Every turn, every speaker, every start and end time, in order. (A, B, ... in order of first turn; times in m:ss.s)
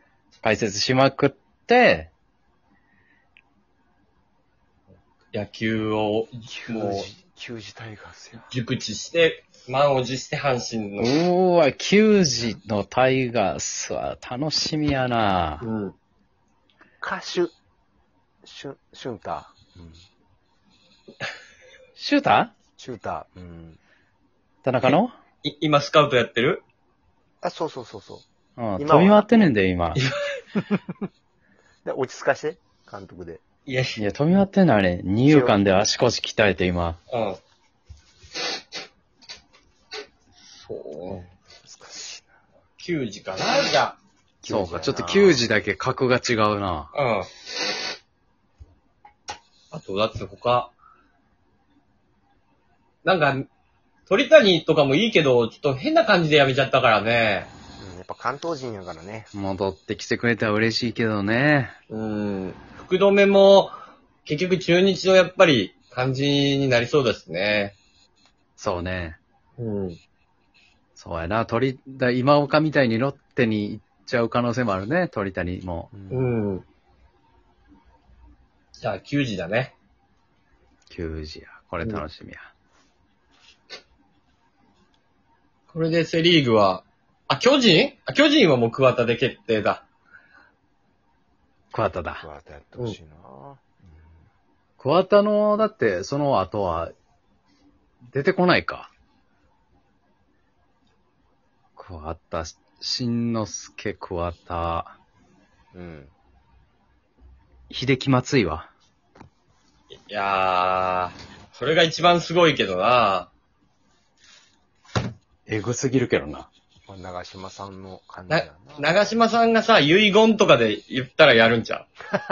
0:00.4-0:02.1 A
0:05.3-0:07.1 B
0:06.5-0:08.5 C
0:08.5-0:11.2 B
0:11.0-0:15.6 A
0:15.6-0:15.9 B
0:17.0-0:17.5 C
0:18.4-0:20.0 C
0:22.0-0:22.5 A
0:22.8-0:23.8 C
0:24.6-0:25.1 A
0:24.8-0:26.6 B
0:27.4-0:28.2 C
0:28.6-0:30.0 A
0:28.8-0:29.5 C
0:31.8-0:33.4 C
0:33.6-0:34.0 B
0:34.0-0:37.0 A
0:35.2-0:35.6 C
0:37.1-0:37.4 B
0:40.5-0:41.2 B
0:41.1-0:42.3 C
0:42.8-0:44.0 B
0:44.4-0:45.4 C
0:44.4-0:46.9 A
0:46.9-0:47.3 B
0:49.7-0:50.7 B
0:53.0-0:53.5 B
0:54.1-0:57.5 B
0:57.8-0:59.3 C
0:59.3-1:01.7 A
1:01.9-1:07.7 B
1:08.6-1:09.2 A
1:09.6-1:10.0 B
1:11.0-1:15.9 A
1:15.9-1:16.3 C
1:16.1-1:16.6 B
1:18.8-1:19.7 B
1:20.9-1:22.4 A
1:25.7-1:29.8 B
1:31.7-1:32.2 A
1:32.2-1:34.1 C
1:34.8-1:36.9 A
1:38.1-1:38.9 A
1:41.8-1:44.9 A
1:45.7-1:46.1 C
1:47.7-1:48.7 A
1:50.1-1:53.3 B
1:55.5-1:56.5 A
1:56.9-1:58.9 C
1:58.3-2:01.9 B